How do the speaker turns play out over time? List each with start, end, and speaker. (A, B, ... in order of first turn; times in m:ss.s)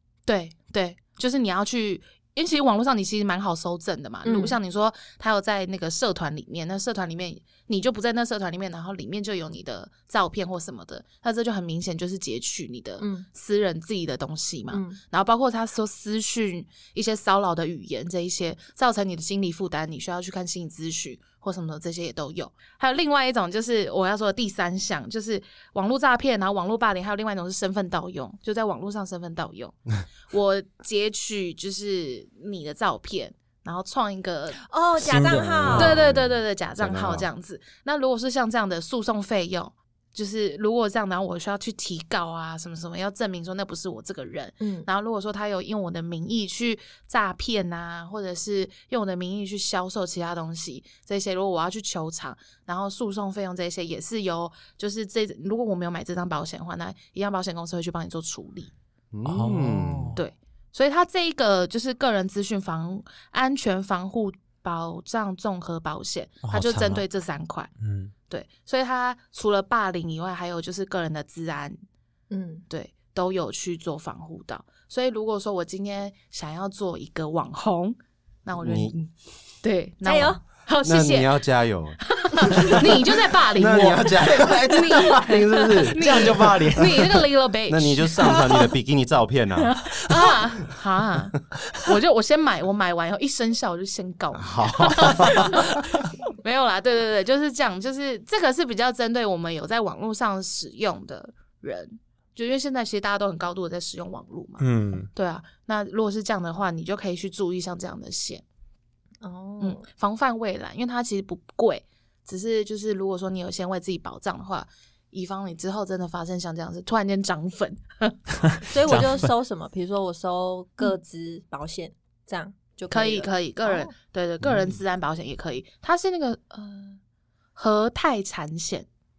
0:00.2-0:29.8 A
0:04.2-0:04.6 B
0:13.0-0:13.3 B
0:14.7-0:15.0 B
0:30.3-0:34.6 A
0:34.6-0:35.9 B
0:35.0-0:36.0 C
0:35.6-0:37.3 D
0:35.7-0:58.7 A
0:44.6-0:44.9 B
0:59.1-1:00.2 D
0:59.2-1:00.2 C
1:00.2-1:07.7 A
1:06.4-1:07.0 C
1:07.8-1:08.1 C
1:08.3-1:11.8 A
1:12.3-1:12.6 B
1:12.7-1:21.4 A
1:18.6-1:18.9 D
1:20.0-1:20.4 B
1:20.8-1:30.3 D
1:22.1-1:28.6 A
1:29.6-1:35.8 A
1:34.3-1:35.8 D
1:36.4-1:48.4 A
1:44.6-1:45.1 C
1:49.2-1:49.8 B
1:49.6-1:58.2 A
1:58.6-1:59.3 C
1:58.7-2:03.9 B
2:02.9-2:07.0 A
2:04.4-2:04.8 D
2:07.6-2:08.8 A